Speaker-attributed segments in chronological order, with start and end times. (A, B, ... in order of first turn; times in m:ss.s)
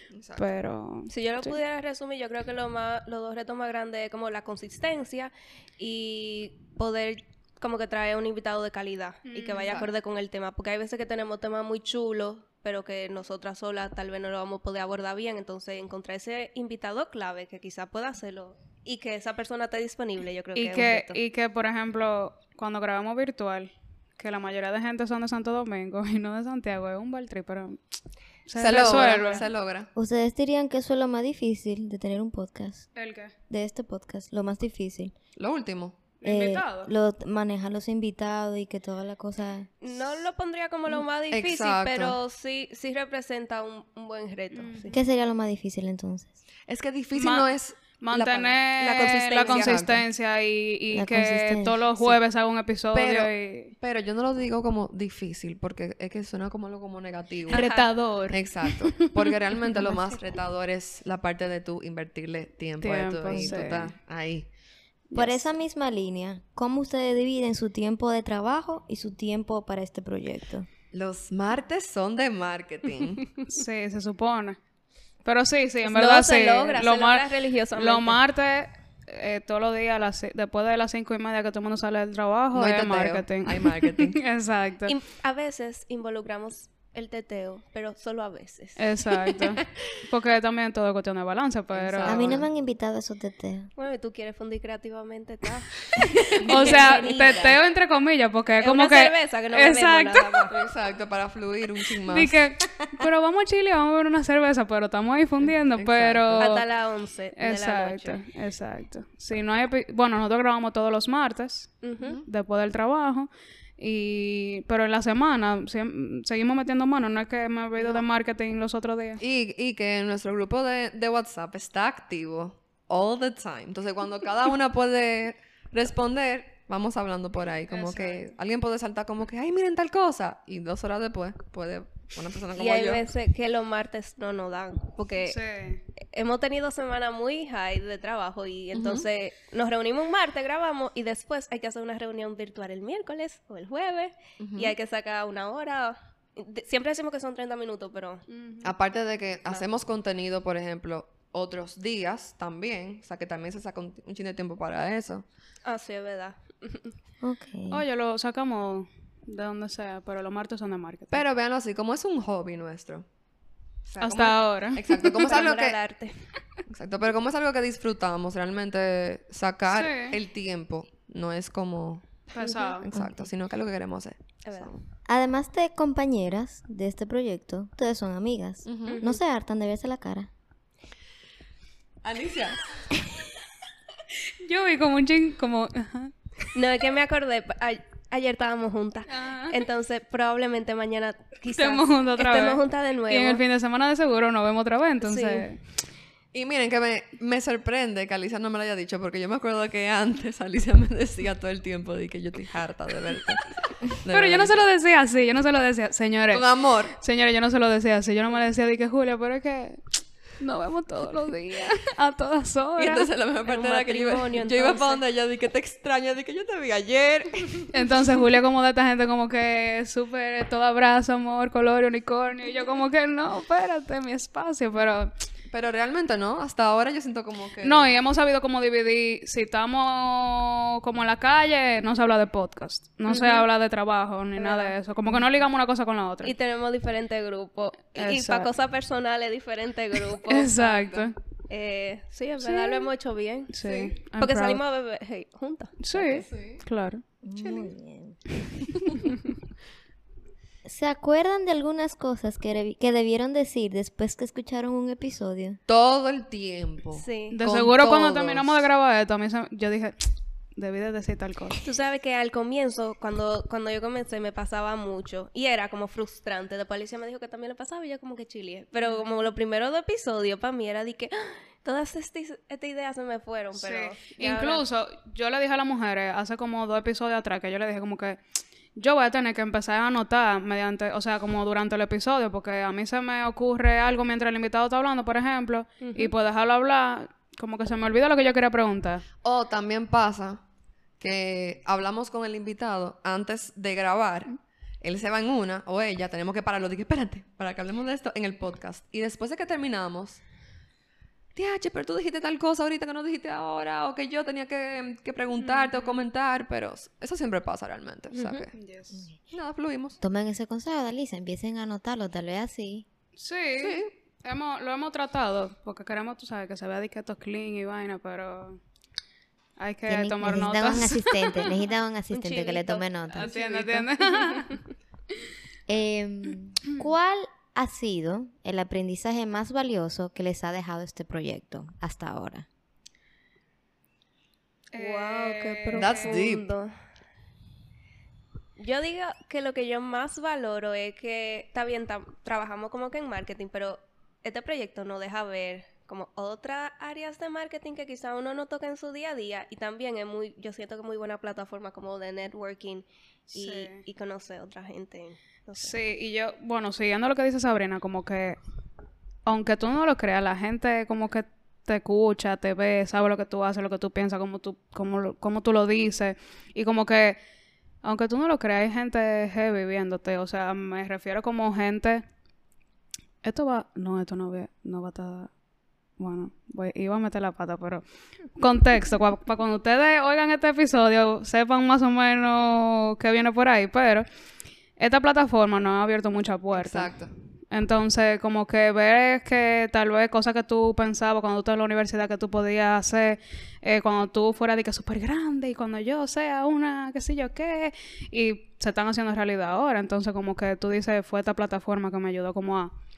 0:00.1-0:00.5 A
0:00.4-0:01.6 B
0:01.1-0:21.2 C
0:09.2-0:09.8 B
0:20.5-0:27.8 B
0:28.4-0:29.4 B
0:28.6-0:29.9 A
0:29.1-0:29.4 C
0:29.9-0:32.9 D
0:32.9-0:33.3 B
0:33.5-0:35.1 D
0:35.4-0:36.1 A
0:36.2-0:36.9 B
0:36.2-0:39.7 D
0:39.8-0:45.0 C
0:41.3-0:42.2 A
0:44.5-0:44.9 B
0:44.9-0:46.4 D
0:46.7-0:50.0 A
0:47.1-0:53.7 B
0:48.8-0:49.8 C
0:50.9-0:52.1 D
0:52.9-0:57.7 A
0:57.5-0:57.9 C
0:57.5-0:59.0 B
0:58.3-1:04.5 A
1:02.8-1:03.9 B
1:03.3-1:03.6 D
1:05.1-1:05.4 B
1:05.1-1:10.7 D
1:10.9-1:13.3 A
1:13.5-1:14.6 B
1:15.2-1:24.9 B
1:15.9-1:18.2 C
1:22.5-1:24.2 A
1:24.8-1:29.4 C
1:28.8-1:32.4 B
1:31.7-1:32.5 A
1:32.0-1:33.7 D
1:33.8-1:37.6 C
1:36.3-1:37.4 A
1:36.4-1:40.5 B
1:38.6-1:40.5 C
1:40.5-1:42.4 A
1:42.1-1:46.6 B
1:45.5-1:46.5 A
1:46.4-1:48.2 C
1:47.4-1:59.2 B
1:51.8-1:52.2 C
1:59.2-2:13.0 A
2:07.7-2:08.2 B
2:12.5-2:15.4 C
2:15.2-2:15.8 B
2:16.0-2:28.2 C
2:18.7-2:19.0 A
2:24.4-2:24.7 A
2:28.3-2:28.7 B
2:28.6-2:35.2 A
2:35.6-2:36.9 C
2:37.2-2:37.8 D
2:37.7-2:41.2 B
2:41.1-2:43.0 A
2:43.8-2:45.8 A
2:44.0-2:45.2 B
2:45.1-2:46.2 C
2:46.7-2:54.8 A
2:49.7-2:50.2 B
2:52.3-2:52.9 B
2:52.9-2:53.2 D
2:54.4-2:54.7 C
2:55.1-3:00.3 D
2:58.6-2:59.0 A
2:58.8-2:59.2 C
3:02.0-3:02.6 A
3:04.4-3:06.5 B
3:06.5-3:13.4 C
3:09.1-3:09.6 B
3:11.5-3:15.6 B
3:15.0-3:15.5 C
3:16.3-3:24.6 A
3:24.1-3:33.1 B
3:26.3-3:26.9 A
3:32.8-3:37.7 A
3:33.4-3:35.0 C
3:37.7-3:45.1 B
3:45.5-3:47.9 A
3:47.6-3:56.3 B
3:53.1-3:53.4 C
3:54.4-3:54.7 C
3:56.2-4:00.6 C
3:57.9-3:58.5 B
4:00.3-4:01.1 B
4:00.6-4:01.1 A
4:01.5-4:06.3 C
4:02.4-4:02.9 B
4:03.5-4:04.6 B
4:05.8-4:07.0 B
4:06.2-4:06.6 A
4:07.2-4:08.2 D
4:07.4-4:07.6 A
4:10.6-4:15.6 D
4:15.7-4:18.6 A
4:16.9-4:17.4 C
4:17.3-4:21.6 B
4:21.6-4:34.6 C
4:33.6-4:38.2 B
4:38.8-4:49.0 B
4:45.8-4:46.1 C
4:49.2-4:50.4 A
4:51.0-5:00.2 A
5:01.3-5:08.5 A
5:05.4-5:06.0 B
5:08.1-5:08.4 C
5:08.5-5:09.1 B
5:08.9-5:09.2 D
5:09.3-5:10.0 A
5:10.0-5:12.8 D
5:13.2-5:18.6 B
5:13.6-5:13.9 A
5:19.6-5:21.5 B
5:19.8-5:23.4 D
5:22.1-5:24.6 C
5:23.1-5:24.5 B
5:25.7-5:32.5 D
5:34.7-5:36.2 B
5:34.7-5:36.7 C
5:35.7-5:36.4 A
5:38.6-5:55.7 C
5:53.3-5:53.8 B
5:55.6-5:58.4 B
5:59.2-6:07.2 B
6:07.8-6:12.0 B
6:13.2-6:15.3 B
6:16.0-6:17.8 B
6:18.4-6:24.0 B
6:24.8-6:26.9 B
6:26.5-6:27.1 A
6:27.5-6:42.7 B